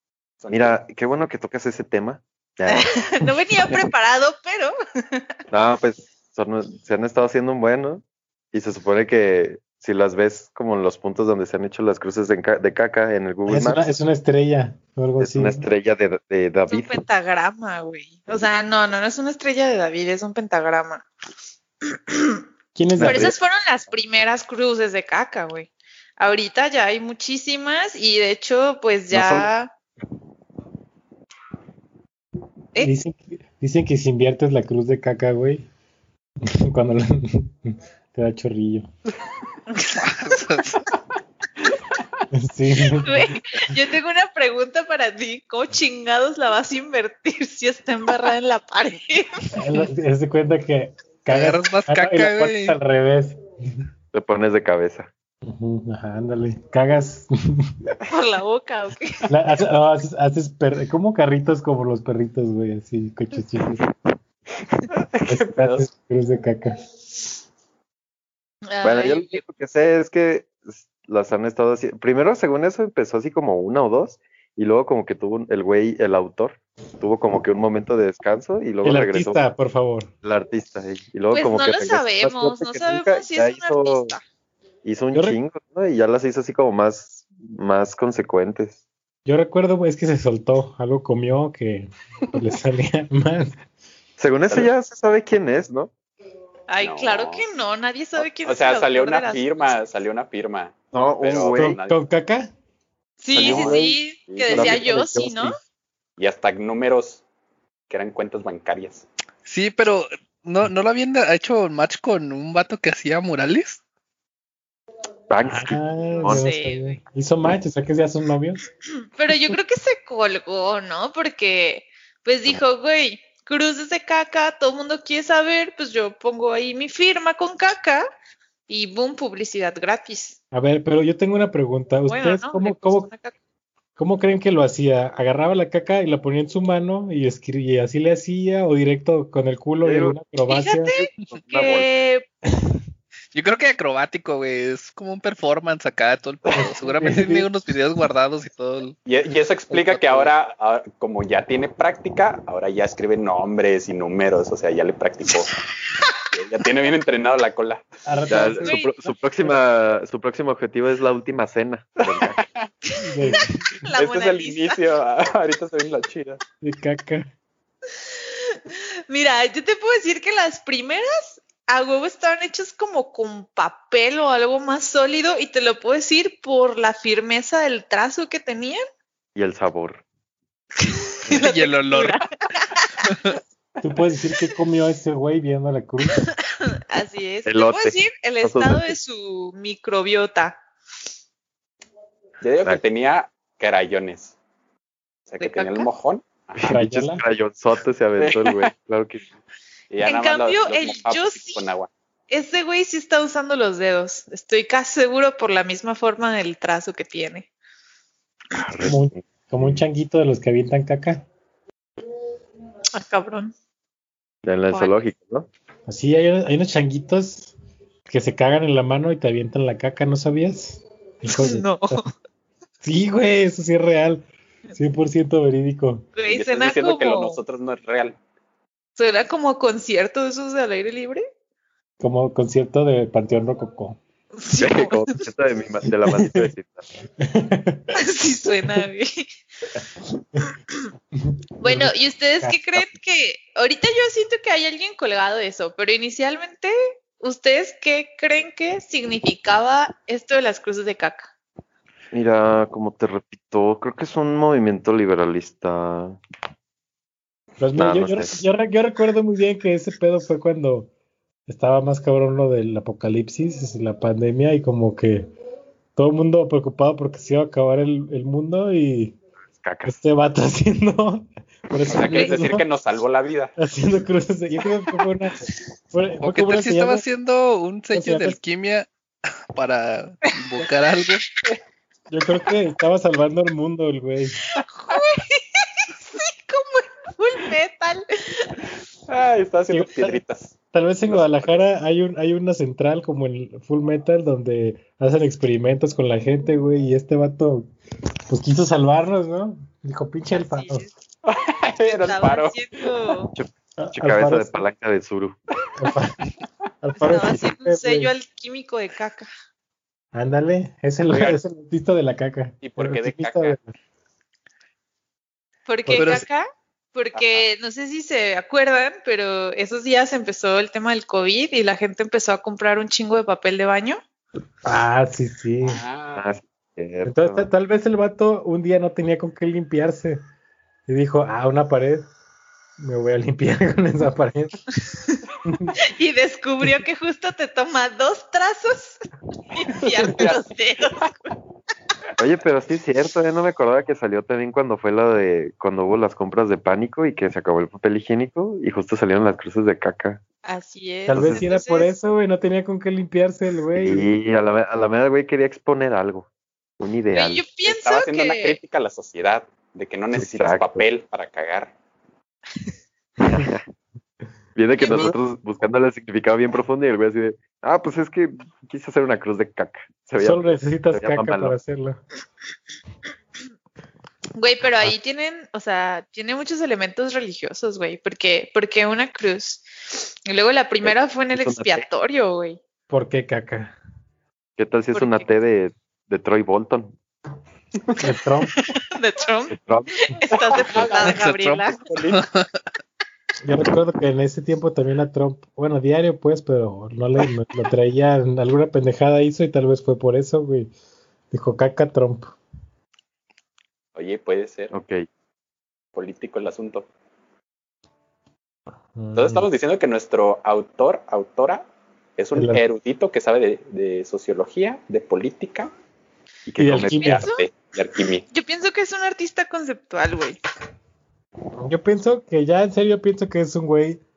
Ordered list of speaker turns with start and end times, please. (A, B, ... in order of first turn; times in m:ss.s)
0:00.4-0:00.8 A
0:00.5-0:02.9 B
0:02.7-0:05.3 C
0:05.5-0:13.8 B
0:13.5-0:15.7 D
0:15.2-0:17.0 B
0:16.7-0:21.1 C
0:22.1-0:22.4 C
0:22.8-0:23.3 D
0:23.0-0:23.4 B
0:23.0-0:29.7 C
0:29.1-0:29.5 B
0:32.8-0:35.7 D
0:36.4-0:38.9 D
0:39.7-0:40.4 C
0:40.0-0:40.9 E
0:42.3-0:43.4 D
0:43.0-0:49.5 C
0:49.5-0:53.4 D
0:51.3-0:52.8 E
0:54.1-0:55.1 B
0:55.4-0:58.0 D
0:58.1-0:59.2 C
0:59.3-1:03.8 D
1:05.1-1:05.9 A
1:05.3-1:06.8 D
1:08.7-1:09.4 C
1:08.8-1:19.4 B
1:18.8-1:20.1 D
1:20.2-1:24.2 B
1:21.3-1:24.2 C
1:24.8-1:28.8 B
1:29.3-1:33.6 D
1:34.2-1:35.9 B
1:36.7-1:39.7 C
1:36.8-1:37.5 A
1:38.2-1:42.0 A
1:40.9-1:41.8 B
1:41.6-1:42.5 D
1:43.2-1:45.5 C
1:43.3-1:44.0 B
1:43.4-1:44.9 A
1:44.5-1:45.6 B
1:46.2-1:47.2 A
1:47.9-1:49.0 A
1:49.5-1:53.8 E
1:55.3-1:56.4 B
1:55.4-1:58.6 D
1:56.2-1:57.0 C
1:59.2-2:08.0 C
2:08.7-2:10.4 C
2:10.5-2:13.1 D
2:12.1-2:13.4 C
2:14.0-2:20.9 D
2:19.8-2:20.2 B
2:20.5-2:22.3 C
2:20.9-2:21.9 B
2:23.3-2:29.0 E
2:26.6-2:27.5 D
2:29.1-2:35.6 A
2:29.7-2:30.3 E
2:36.3-2:37.9 A
2:38.1-2:38.8 D
2:38.3-2:42.4 B
2:38.6-2:39.2 C
2:42.0-2:42.7 A
2:42.9-2:44.8 C
2:43.0-2:43.8 D
2:44.0-2:46.4 A
2:46.6-2:47.3 D
2:48.2-2:58.8 C
2:59.4-3:00.0 B
3:00.8-3:03.1 C
3:01.3-3:02.2 E
3:03.0-3:03.4 E
3:03.8-3:06.3 D
3:06.5-3:10.6 C
3:07.4-3:09.0 B
3:12.4-3:14.4 A
3:15.3-3:16.6 A
3:15.4-3:15.9 C
3:16.6-3:19.2 B
3:16.6-3:17.2 D
3:18.2-3:18.7 A
3:19.9-3:21.9 A
3:20.0-3:21.6 C
3:22.3-3:27.5 C
3:28.5-3:29.8 B
3:28.8-3:31.3 D
3:32.9-3:33.5 C
3:34.4-3:35.5 B
3:34.7-3:35.1 C
3:35.9-3:37.5 D
3:38.1-3:42.1 D
3:41.3-3:42.0 C
3:42.8-3:46.1 D
3:46.2-3:47.4 C
3:46.3-3:48.2 A
3:49.0-3:51.2 C
3:52.0-3:54.0 D
3:54.4-3:55.1 C
3:54.5-3:56.8 B
3:56.1-3:56.5 D
3:57.2-3:57.9 D
3:58.0-3:59.3 C
4:01.1-4:02.8 D
4:01.6-4:11.3 C
4:12.1-4:16.2 B
4:17.6-4:20.9 D
4:17.8-4:18.4 B
4:21.5-4:25.3 D
4:26.0-4:29.2 D
4:29.6-4:30.0 B
4:29.8-4:32.6 D
4:31.9-4:33.6 A
4:32.1-4:32.4 C
4:33.6-4:37.0 D
4:36.2-4:38.9 E
4:37.9-4:38.4 D
4:39.6-4:41.3 E
4:42.1-4:44.4 D
4:44.6-4:48.6 C
4:49.1-4:50.6 A
4:49.7-4:50.2 D
4:50.7-4:57.7 D
4:51.1-4:51.6 A
4:58.3-5:00.9 D
5:00.3-5:00.9 C
5:01.2-5:02.9 A
5:02.0-5:03.3 C
5:03.4-5:05.4 B
5:03.8-5:04.6 D
5:05.8-5:06.3 D
5:06.8-5:08.1 D
5:07.1-5:09.3 C
5:10.1-5:13.7 D
5:11.1-5:11.4 A
5:12.6-5:13.6 A
5:15.7-5:24.0 C
5:15.9-5:16.2 D
5:15.9-5:16.3 E
5:17.1-5:17.5 A
5:24.6-5:25.8 D
5:25.6-5:26.3 A
5:26.2-5:27.5 B
5:27.0-5:30.2 D
5:30.9-5:32.1 D
5:32.8-5:34.6 D
5:35.4-5:35.8 D
5:35.9-5:39.0 C
5:39.5-5:41.3 C
5:40.0-5:40.4 A
5:42.2-5:50.2 B
5:50.4-5:51.9 C
5:51.1-5:54.1 D
5:51.1-5:51.5 B
5:53.8-5:56.3 B
5:56.8-5:57.4 B
5:57.1-5:58.6 C
5:57.6-6:01.7 A
6:00.1-6:00.9 B
6:03.2-6:03.6 B
6:04.6-6:11.6 B
6:04.8-6:05.1 C
6:10.2-6:12.0 D
6:14.4-6:22.6 C
6:20.8-6:21.9 B
6:22.9-6:23.8 D
6:24.6-6:27.0 B
6:24.9-6:25.3 C
6:28.0-6:28.6 D
6:28.9-6:31.8 C
6:29.5-6:29.9 B
6:30.3-6:31.2 A
6:31.0-6:32.6 E
6:31.8-6:32.2 A
6:33.4-6:40.7 D
6:41.3-6:42.4 D
6:44.0-6:44.7 A
6:44.7-6:45.1 B
6:46.0-6:46.9 A
6:49.0-6:49.5 D
6:49.2-6:51.6 A
6:52.2-6:55.7 A
6:52.4-6:52.6 D
6:56.5-6:57.2 B
6:56.6-6:57.3 D
6:56.8-6:58.3 A
6:56.9-6:57.5 C
6:58.3-7:00.4 C
7:01.6-7:04.0 D